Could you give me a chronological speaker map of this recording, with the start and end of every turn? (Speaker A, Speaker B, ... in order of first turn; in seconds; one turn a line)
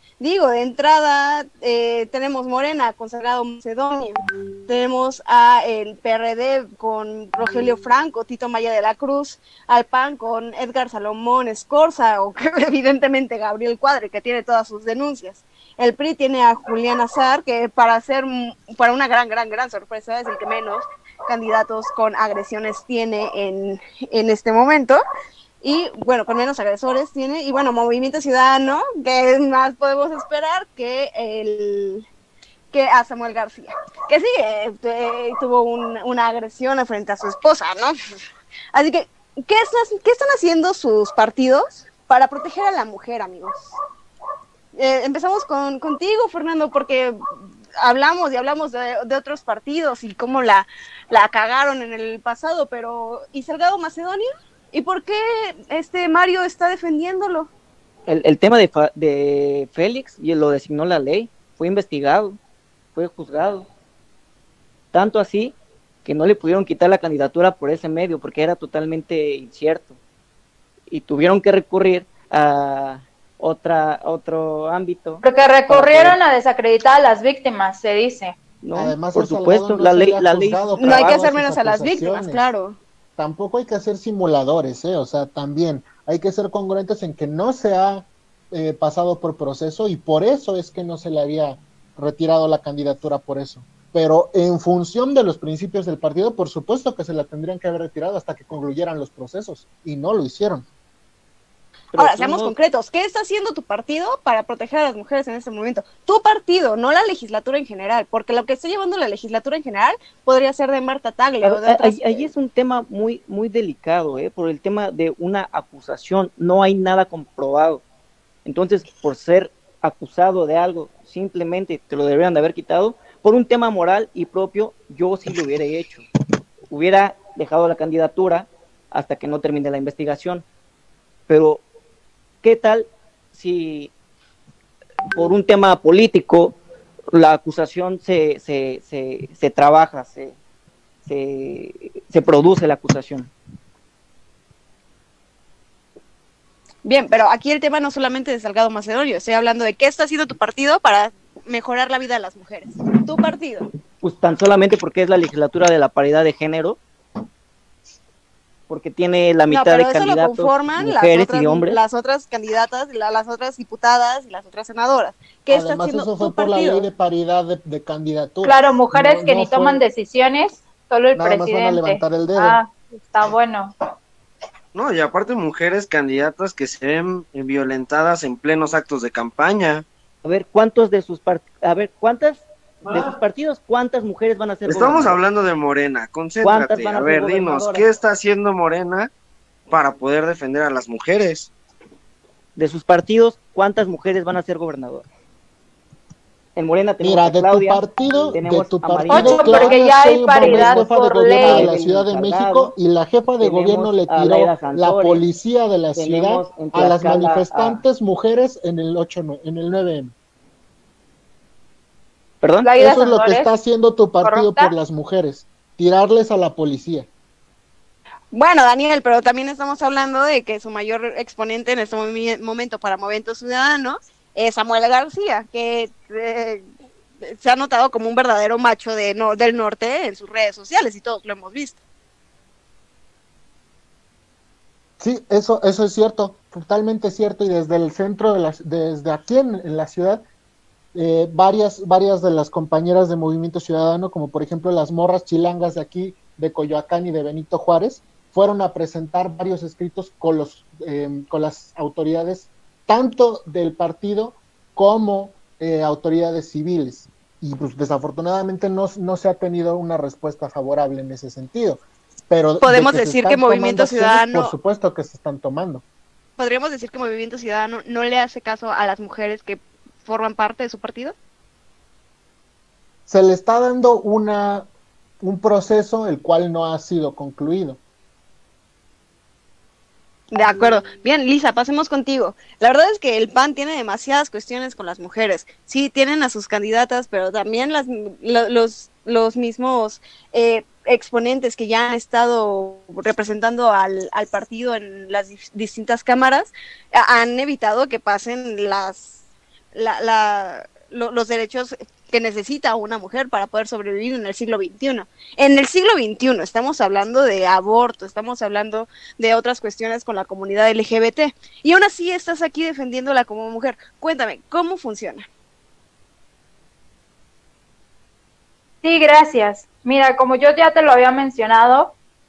Speaker A: 0.2-25.0
Speaker A: 25.6-32.0
Speaker A: 32.7-38.0
Speaker A: 38.7-43.7
Speaker A: 44.7-47.2
Speaker A: 47.8-57.5
Speaker B: 58.1-62.4
Speaker B: 62.9-63.7
Speaker B: 64.9-70.0
Speaker B: 70.9-76.2
Speaker C: 75.2-78.3
Speaker B: 78.6-81.3
Speaker D: 78.7-82.5
Speaker A: 80.8-82.8
Speaker D: 83.2-100.7
Speaker B: 101.9-102.5
Speaker A: 101.9-112.2
Speaker B: 111.4-117.8
Speaker B: 118.4-126.0
Speaker B: 126.7-130.4
Speaker B: 131.3-131.6
Speaker B: 132.4-133.9
Speaker B: 135.1-136.6
Speaker B: 137.1-140.3
Speaker B: 141.1-143.3
Speaker A: 146.8-153.6
Speaker B: 154.0-156.8
Speaker B: 158.7-161.8
Speaker A: 159.5-166.9
Speaker D: 165.5-169.8
Speaker C: 168.4-173.7
Speaker D: 171.1-172.6
Speaker E: 174.7-179.8
Speaker B: 180.2-185.2
Speaker E: 184.6-189.1
Speaker B: 186.4-187.8
Speaker E: 189.7-191.5
Speaker B: 192.6-195.1
Speaker B: 196.6-202.7
Speaker D: 197.0-210.1
Speaker C: 199.1-201.7
Speaker B: 203.4-205.2
Speaker B: 205.9-207.8
Speaker B: 212.4-212.7
Speaker C: 212.6-213.5
Speaker D: 212.8-217.1
Speaker C: 214.2-214.7
Speaker A: 218.3-226.7
Speaker A: 227.2-231.8
Speaker D: 235.0-240.2
Speaker D: 240.9-265.8
Speaker A: 262.6-264.5
Speaker A: 266.4-271.1
Speaker D: 273.1-274.7
Speaker D: 275.2-277.8
Speaker A: 280.3-299.2
Speaker A: 299.7-315.3
Speaker C: 318.8-321.9